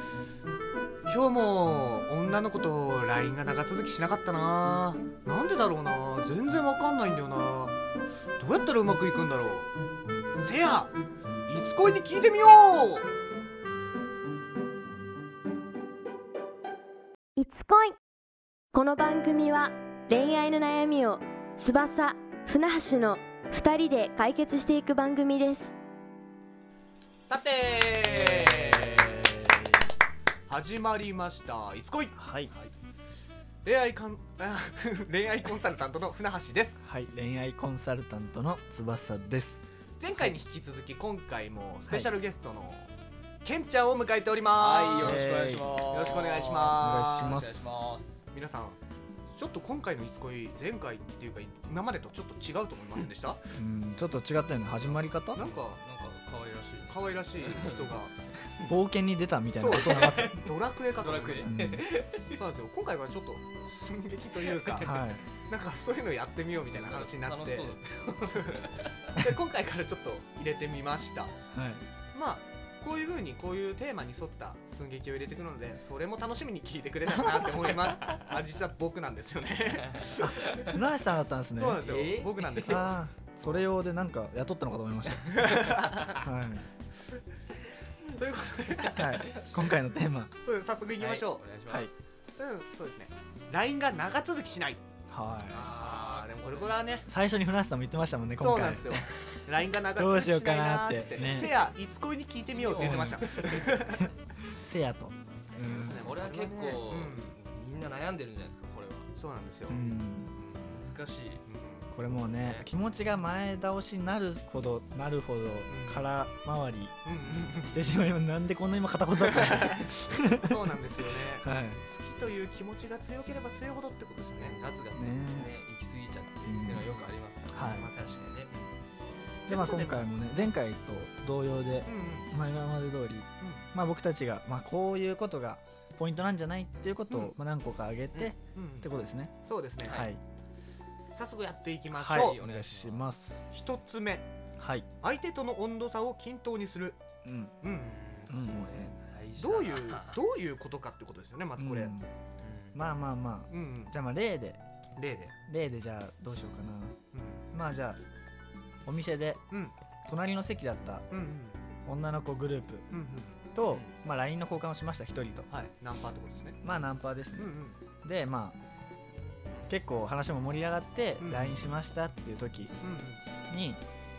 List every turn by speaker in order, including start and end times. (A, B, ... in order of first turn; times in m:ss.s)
0:01.0-0:07.8 A
0:08.4-0:09.7 A
0:10.4-0:10.9 A
0:11.5-0:13.1 A
0:17.4-0:18.0 B
0:18.7-0:25.7 B
0:27.3-0:29.5 A
0:28.1-0:29.7 C
0:30.5-0:32.2 A
0:32.1-0:32.5 C
0:33.6-0:36.8 A
0:36.8-0:40.3 C
0:40.0-0:42.9 A
0:41.9-0:42.2 C
0:43.4-0:47.4 A
0:44.6-0:48.3 D
0:45.0-0:45.7 C
0:46.7-0:47.7 C
0:48.3-0:48.8 A
0:49.3-0:53.6 A
0:53.5-0:55.4 C
0:54.8-0:58.8 D
0:55.3-0:55.8 A
0:56.9-0:58.1 A
0:58.7-1:00.4 C
0:59.6-1:01.5 A
0:59.7-1:00.4 D
1:01.0-1:02.4 D
1:01.4-1:01.8 C
1:02.3-1:11.3 A
1:04.6-1:05.0 D
1:04.8-1:05.2 C
1:06.7-1:09.1 D
1:11.5-1:11.8 C
1:12.1-1:20.8 A
1:19.9-1:20.7 D
1:20.2-1:21.9 C
1:21.5-1:23.7 A
1:21.8-1:22.9 D
1:22.6-1:25.4 C
1:25.2-1:26.2 A
1:26.0-1:26.7 C
1:28.0-1:29.4 A
1:28.9-1:30.3 C
1:30.4-1:31.4 A
1:31.0-1:31.9 D
1:32.4-1:34.8 A
1:35.1-1:35.6 C
1:35.5-1:37.1 A
1:35.5-1:36.9 D
1:37.0-1:39.0 C
1:38.4-1:44.1 A
1:40.0-1:41.5 C
1:42.5-1:43.7 D
1:42.7-1:46.0 C
1:45.7-1:47.4 A
1:45.9-1:49.1 D
1:49.1-1:49.8 A
1:49.7-1:50.3 C
1:49.7-1:50.0 D
1:50.3-1:51.9 A
1:50.7-1:52.7 D
1:51.9-2:01.8 C
1:55.7-1:56.1 A
1:57.0-1:57.9 A
1:59.2-2:04.6 A
2:04.3-2:08.7 D
2:04.9-2:05.5 C
2:06.4-2:06.9 C
2:07.5-2:07.9 C
2:07.6-2:08.2 A
2:09.5-2:10.5 A
2:09.5-2:20.2 C
2:11.8-2:12.3 A
2:13.4-2:13.7 A
2:17.1-2:17.3 A
2:18.5-2:18.9 A
2:19.4-2:20.1 A
2:19.8-2:20.1 D
2:21.1-2:22.4 A
2:21.9-2:23.5 C
2:22.1-2:23.1 D
2:23.5-2:24.3 A
2:24.6-2:24.9 C
2:25.0-2:27.0 A
2:27.2-2:27.6 C
2:27.6-2:28.0 A
2:27.8-2:30.2 D
2:28.3-2:28.9 C
2:29.4-2:31.9 A
2:31.6-2:32.1 C
2:32.4-2:32.8 D
2:32.7-2:34.6 C
2:33.5-2:33.9 A
2:35.0-2:35.3 D
2:35.5-2:37.0 C
2:37.1-2:37.4 A
2:37.5-2:38.0 C
2:38.8-2:39.4 C
2:39.5-2:39.8 A
2:40.0-2:41.1 C
2:41.1-2:41.7 A
2:41.8-2:42.9 C
2:42.9-2:43.4 A
2:43.5-2:45.5 C
2:45.5-2:46.6 A
2:46.6-2:48.6 C
2:47.3-2:47.8 A
2:49.7-2:52.7 C
2:51.2-2:51.7 A
2:52.8-2:53.2 A
2:53.5-2:53.8 C